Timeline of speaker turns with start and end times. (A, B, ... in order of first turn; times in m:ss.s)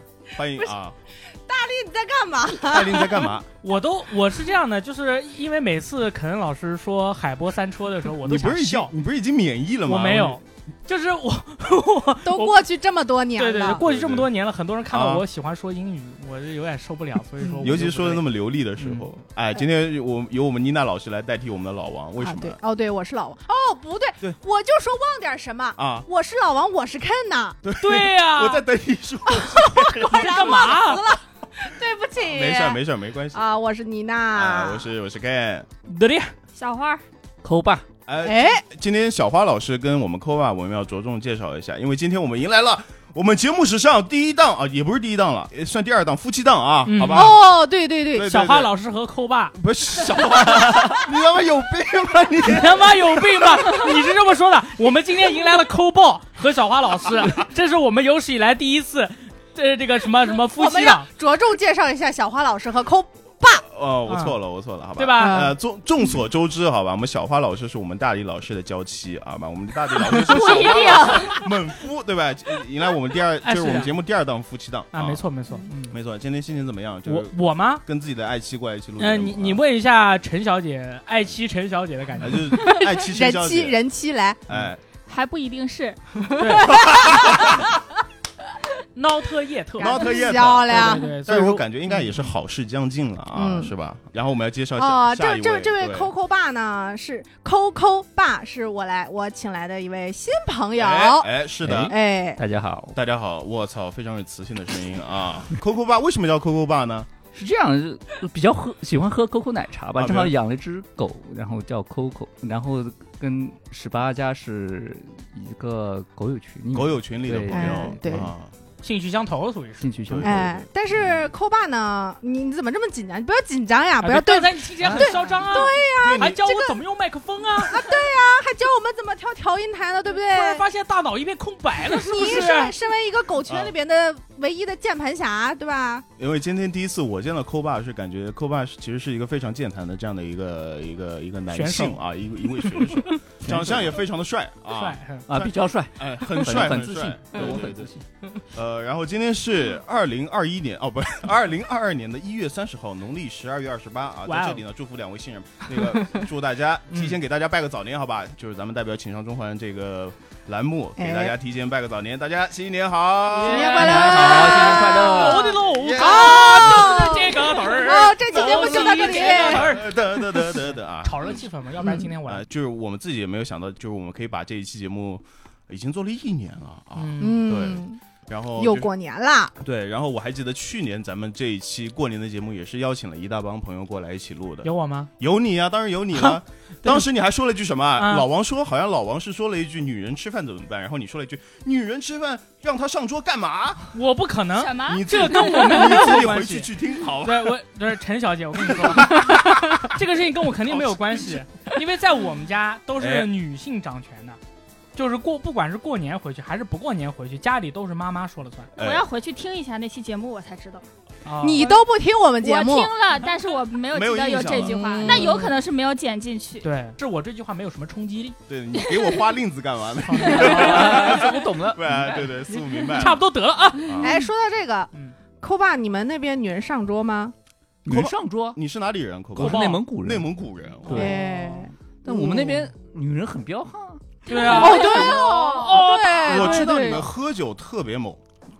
0:00.3-0:01.0 A
0:00.4-0:00.7 B
0:01.3-0:03.3 B
0:02.6-0:03.5 A
0:03.6-0:08.9 C
0:08.2-0:10.4 A
0:09.8-0:12.6 C
0:12.2-0:13.8 B
0:13.4-0:18.2 C
0:13.8-0:14.3 A
0:14.9-0:15.2 A
0:17.4-0:17.7 B
0:17.6-0:22.6 A
0:18.8-0:19.0 C
0:22.2-0:27.6 B
0:25.8-0:26.0 A
0:27.6-0:30.8 A
0:27.8-0:28.6 C
0:29.3-0:32.8 B
0:30.1-0:31.0 C
0:32.2-0:33.4 A
0:33.3-0:34.9 B
0:34.3-0:35.7 A
0:35.9-0:36.3 C
0:36.5-0:37.0 D
0:37.4-0:37.8 E
0:38.1-0:47.6 A
0:38.2-0:38.6 B
0:46.8-0:47.3 C
0:47.1-0:48.3 B
0:48.1-0:48.7 A
0:48.2-0:49.5 C
0:49.5-0:53.8 A
0:52.4-1:01.1 C
1:00.5-1:03.6 B
1:03.6-1:15.2 A
1:04.1-1:04.4 C
1:05.0-1:05.5 C
1:05.2-1:05.6 B
1:10.0-1:11.4 B
1:10.4-1:11.4 D
1:13.4-1:13.9 C
1:14.9-1:15.9 C
1:15.9-1:19.6 A
1:17.0-1:17.8 C
1:19.0-1:22.5 C
1:22.2-1:23.8 A
1:22.6-1:24.4 B
1:24.5-1:24.8 A
1:25.0-1:26.0 D
1:26.4-1:26.9 C
1:26.5-1:27.6 B
1:26.7-1:27.6 A
1:28.9-1:30.1 C
1:29.8-1:31.1 B
1:29.8-1:36.1 A
1:30.7-1:31.6 C
1:33.3-1:33.7 B
1:34.8-1:41.3 B
1:40.7-1:41.9 A
1:41.6-1:43.0 E
1:41.9-1:42.4 B
1:42.9-1:47.1 A
1:47.3-1:58.3 E
1:50.0-1:50.3 A
1:56.7-1:58.5 A
1:57.5-1:58.3 B
1:58.8-1:59.8 C
1:59.8-2:00.6 E
2:00.0-2:01.3 A
2:00.2-2:06.8 B
2:04.0-2:07.8 C
2:04.8-2:06.4 A
2:07.6-2:10.6 B
2:10.3-2:12.7 C
2:12.0-2:16.0 B
2:13.4-2:13.7 A
2:16.2-2:27.9 A
2:21.5-2:22.0 C
2:22.7-2:23.1 C
2:23.4-2:24.0 E
2:24.8-2:25.3 C
2:25.3-2:28.0 E
2:28.4-2:44.3 A
2:34.2-2:34.6 C
2:36.9-2:37.2 C
2:41.0-2:41.3 B
2:43.3-2:52.4 C
2:43.4-2:49.8 B
2:43.7-2:45.6 E
2:45.6-2:47.4 A
2:48.9-2:51.4 A
2:51.8-2:52.1 B
2:52.2-2:58.9 A
2:56.9-2:57.6 C
2:57.2-2:58.0 B
2:58.6-2:59.5 B
2:59.6-3:14.0 A
3:04.6-3:05.1 C
3:06.2-3:07.0 C
3:08.0-3:08.3 C
3:13.9-3:24.4 C
3:14.5-3:15.7 D
3:14.8-3:17.6 A
3:18.6-3:19.9 A
3:20.6-3:21.4 A
3:23.0-3:23.3 A
3:24.9-3:28.7 C
3:28.8-3:30.8 D
3:28.8-3:29.0 A
3:31.2-3:31.7 C
3:31.4-3:32.9 B
3:31.5-3:31.9 D
3:32.4-3:36.7 D
3:33.9-3:35.2 A
3:34.5-3:35.6 B
3:36.6-3:38.4 C
3:38.5-3:43.2 A
3:40.0-3:41.4 C
3:40.4-3:42.2 E
3:42.1-3:44.2 C
3:43.8-3:44.2 A
3:44.0-3:47.3 B
3:47.8-3:48.6 E
3:47.9-3:51.2 A
3:49.3-3:50.3 E
3:49.4-3:49.8 C
3:50.8-3:51.7 C
3:50.9-3:51.2 E
3:50.9-3:51.7 B
3:52.0-3:54.2 E
3:52.1-3:52.6 A
3:54.2-3:56.9 C
3:54.3-3:55.4 D
3:54.4-3:57.1 B
3:56.0-3:58.2 A